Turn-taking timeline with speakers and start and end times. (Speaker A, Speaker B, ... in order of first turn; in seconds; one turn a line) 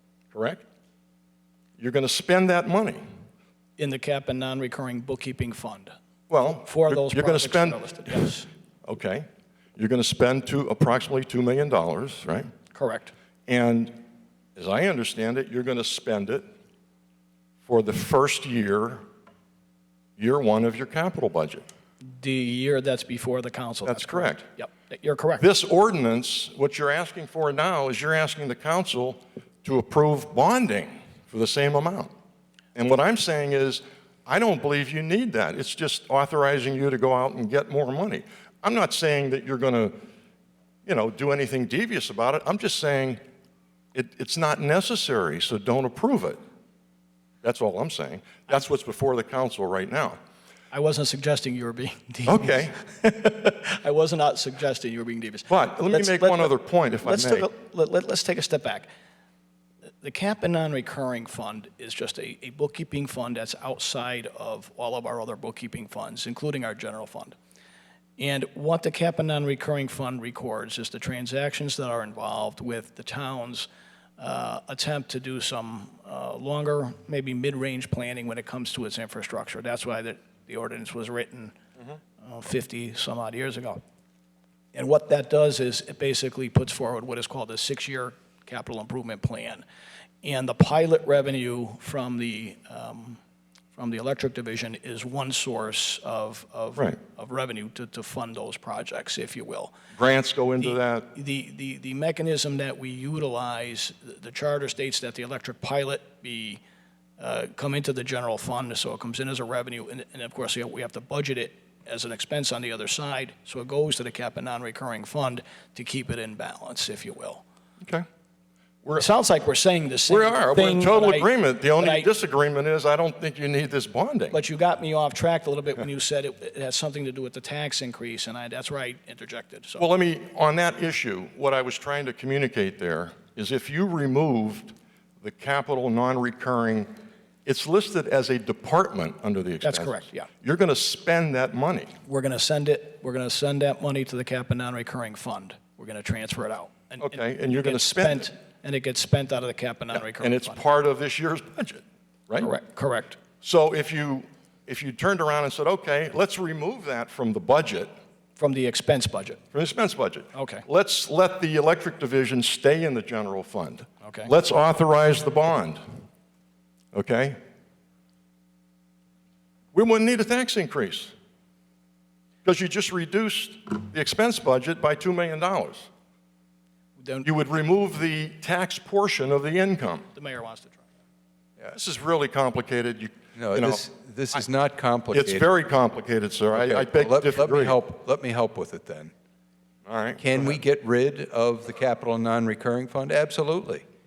Speaker A: 0.3-0.6
Speaker A: 1.8-3.0
Speaker B: 3.8-5.9
Speaker A: 6.3-8.3
Speaker B: 6.5-8.5
Speaker A: 8.8-12.5
Speaker B: 12.7-13.1
Speaker A: 13.5-14.0
Speaker A: 14.6-16.4
Speaker A: 17.7-19.0
Speaker A: 20.2-21.6
Speaker B: 22.0-25.5
Speaker A: 23.9-24.4
Speaker A: 25.4-32.1
Speaker A: 32.7-39.9
Speaker A: 40.9-43.2
Speaker A: 43.9-46.4
Speaker A: 47.4-50.2
Speaker B: 50.7-58.9
Speaker A: 52.2-52.7
Speaker A: 55.5-57.5
Speaker B: 60.0-67.3
Speaker B: 68.2-81.5
Speaker B: 82.2-83.8
Speaker B: 84.7-89.6
Speaker B: 90.2-93.2
Speaker B: 93.7-99.7
Speaker A: 99.9-101.1
Speaker B: 100.6-106.6
Speaker B: 107.2-117.4
Speaker B: 119.0-122.1
Speaker A: 120.1-124.4
Speaker B: 124.3-129.8
Speaker A: 129.8-136.9
Speaker A: 137.4-141.9
Speaker B: 139.6-140.3
Speaker B: 142.1-150.6
Speaker A: 147.0-148.3
Speaker A: 149.9-152.5
Speaker B: 152.4-153.2
Speaker A: 153.4-157.9
Speaker B: 158.4-159.4
Speaker A: 159.5-165.8
Speaker B: 160.3-160.6
Speaker B: 164.0-164.3
Speaker A: 166.9-167.4
Speaker A: 169.7-171.1
Speaker A: 172.4-175.9
Speaker B: 177.0-177.3
Speaker A: 177.2-180.1
Speaker B: 180.1-180.8
Speaker A: 181.7-184.4
Speaker C: 183.3-185.5
Speaker A: 185.1-187.8
Speaker C: 186.5-189.1
Speaker A: 189.8-190.6
Speaker C: 190.2-193.8